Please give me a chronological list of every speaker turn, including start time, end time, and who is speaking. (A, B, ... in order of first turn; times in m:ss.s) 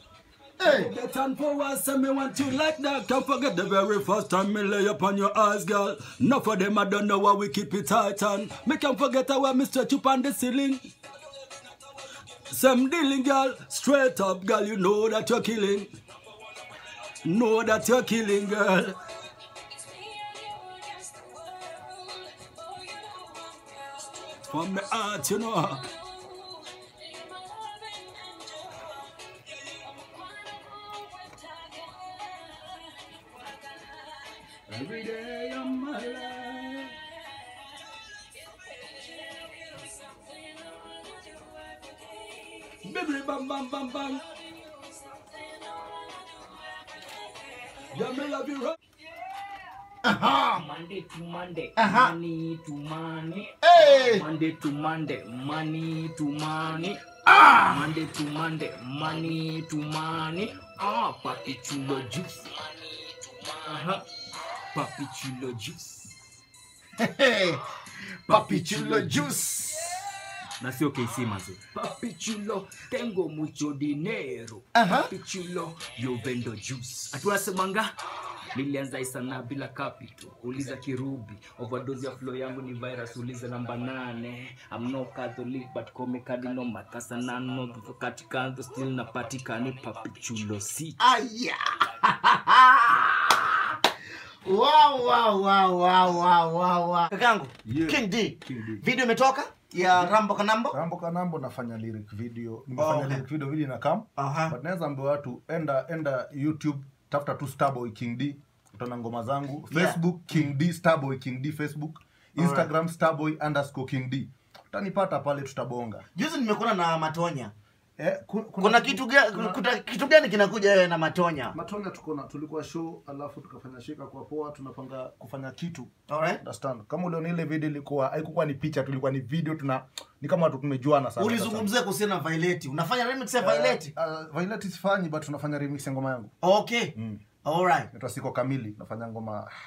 0:00.6-0:00.9 A
0:00.6-0:10.8 B
0:12.5-0:15.9 B
0:17.2-0:19.0 B
0:24.4-0:25.8 B
0:31.2-0:31.6 C
0:34.7-0:36.9 B
0:40.7-0:41.3 C
0:42.8-0:44.3 B
0:47.9-0:48.8 B
0:50.0-0:50.6 A
0:50.5-1:04.0 C
0:51.8-0:52.1 A
0:53.6-0:54.2 A
0:57.3-0:57.7 A
1:04.7-1:06.2 C
1:07.0-1:07.6 A
1:08.3-1:10.0 A
1:08.3-1:09.3 C
1:10.6-1:17.9 C
1:14.7-1:15.1 A
1:18.5-1:31.0 C
1:31.0-1:33.8 A
1:34.4-1:40.8 A
1:37.6-1:38.8 D
1:40.7-1:56.0 D
1:42.8-1:43.2 A
1:44.2-1:44.5 A
1:49.7-1:50.0 A
1:52.4-1:52.7 A
1:56.1-1:57.5 A
1:58.0-1:59.6 D
1:58.6-2:01.5 A
2:01.5-2:11.7 D
2:06.1-2:06.4 A
2:11.2-2:13.9 A
2:13.4-2:16.3 D
2:16.4-2:17.9 A
2:17.0-2:17.2 D
2:17.9-2:19.5 D